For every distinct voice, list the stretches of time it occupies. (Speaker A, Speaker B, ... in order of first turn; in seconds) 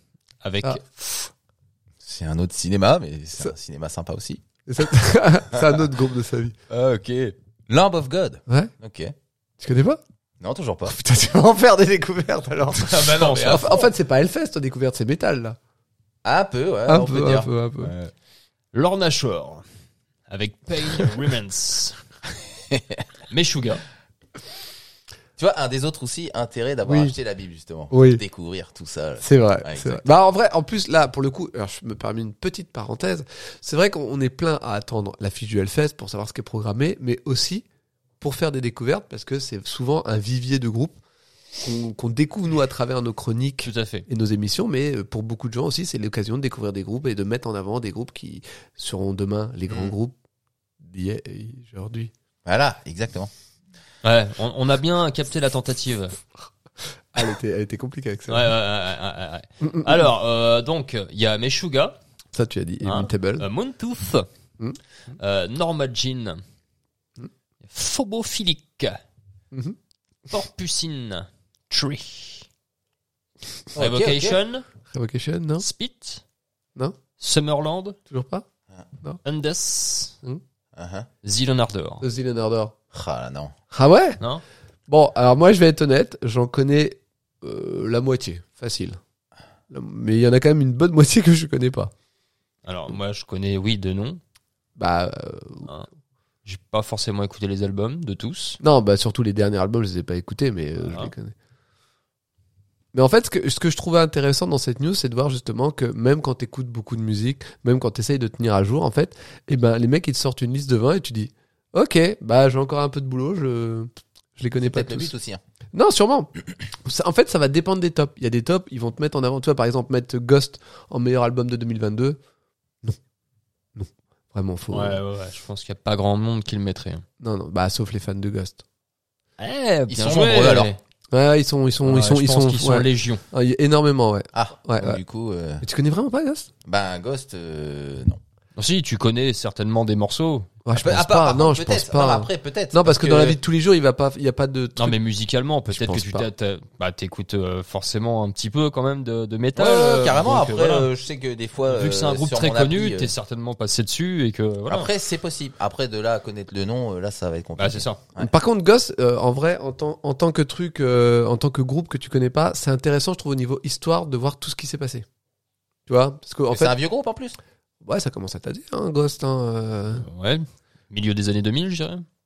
Speaker A: 0.4-1.3, 13.1-13.7, 18.7-19.6, 20.3-22.0, 23.3-23.8, 43.6-44.0, 54.0-56.2, 58.3-62.0, 62.8-64.3, 65.2-66.4, 67.6-69.0, 70.3-72.5, 73.7-74.6, 75.6-76.2, 77.2-78.0, 79.2-80.2, 81.2-82.0, 92.6-94.2, 96.4-98.6, 100.8-101.1, 124.7-127.0, 129.4-130.8, 131.8-133.2, 138.6-140.5, 144.8-150.9, 151.7-154.9, 157.6-158.0, 170.0-172.0
Speaker B: 2.0-4.4, 6.7-9.1, 10.4-10.9, 12.7-13.9, 16.2-18.1, 22.7-23.0, 25.4-30.1, 49.7-49.9, 52.4-53.3, 73.8-74.4, 80.7-81.1, 82.9-83.5, 114.7-115.4, 129.9-130.7, 134.3-135.6, 136.6-138.2, 140.7-143.4, 149.6-153.1, 154.7-158.3, 166.5-167.4
Speaker C: 4.7-6.5, 9.6-10.0, 10.8-15.6, 16.9-17.9, 26.9-27.1, 27.9-28.2, 29.2-37.6, 38.2-41.0, 41.6-50.1, 50.8-52.1, 57.1-58.5, 59.6-59.9, 62.3-63.5, 69.5-69.8, 74.9-75.7, 78.1-78.5, 82.0-82.7, 83.7-84.2, 84.9-89.0, 89.7-91.9, 94.8-95.7, 98.6-101.3, 102.9-115.1, 115.7-116.3, 116.8-122.2, 123.8-125.0, 127.2-128.6, 131.1-135.0, 135.6-136.5, 140.6-145.0, 145.7-146.3, 158.2-165.0, 165.9-166.8, 167.8-170.1